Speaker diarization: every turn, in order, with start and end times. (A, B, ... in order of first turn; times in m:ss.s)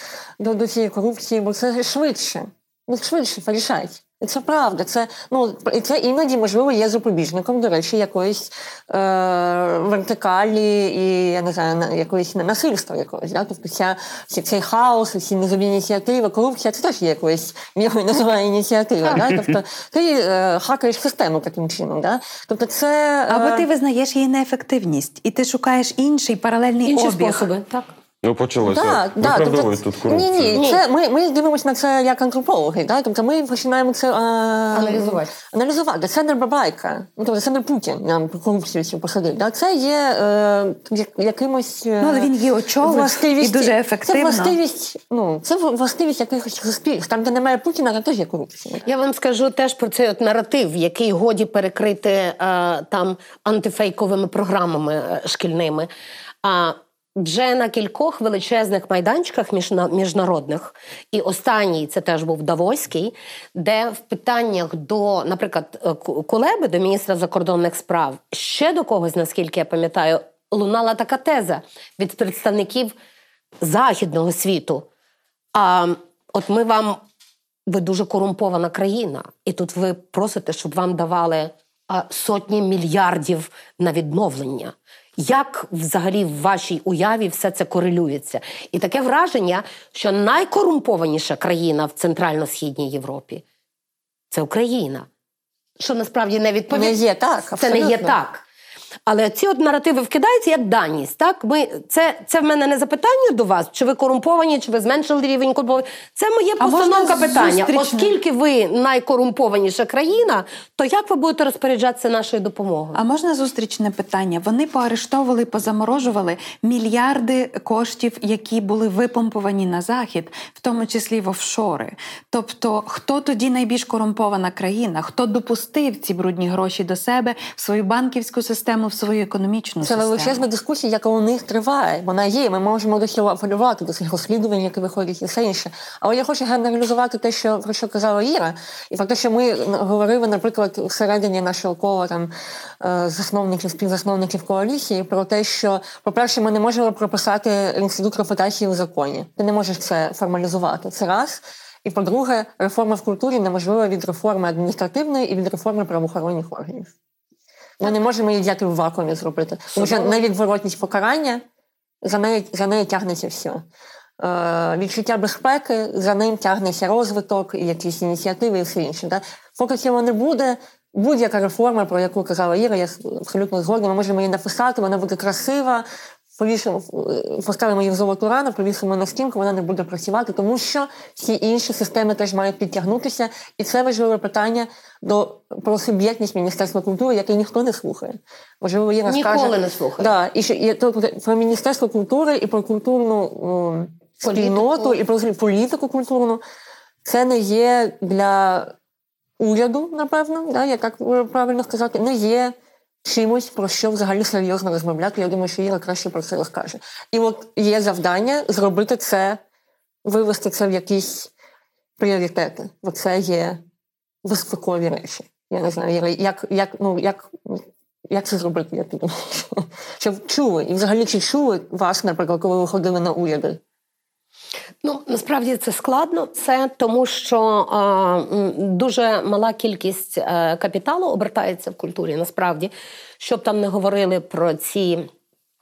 0:00.4-0:23.7 A
0:23.3-0:27.5 B
0:26.9-0:27.9 C
0:28.2-0:30.6 D
0:28.6-0:42.3 A
0:30.6-0:30.8 C
0:34.7-0:35.4 C
0:42.0-0:44.6 B
0:42.8-0:48.8 A
0:48.8-0:55.9 C
0:56.4-1:12.9 C
1:13.6-1:14.9 C
1:15.6-1:17.0 C
1:17.7-1:33.4 C
1:34.3-1:35.1 C
1:35.8-1:37.0 C
1:36.7-1:38.2 A
1:37.5-1:38.4 C
1:39.1-1:53.0 C
1:46.6-1:48.1 B
1:53.0-2:10.5 B
2:09.8-2:36.9 A
2:37.8-2:41.4 A
2:39.7-2:40.3 C
2:42.0-2:43.6 A
2:44.2-2:55.8 A
2:56.4-3:16.4 A
3:09.1-3:10.1 C
3:14.2-3:15.0 C
3:17.0-3:18.7 A
3:19.4-3:29.4 A
3:30.0-3:31.3 A
3:32.0-3:33.6 A
3:34.2-3:43.6 A
3:44.8-3:55.1 C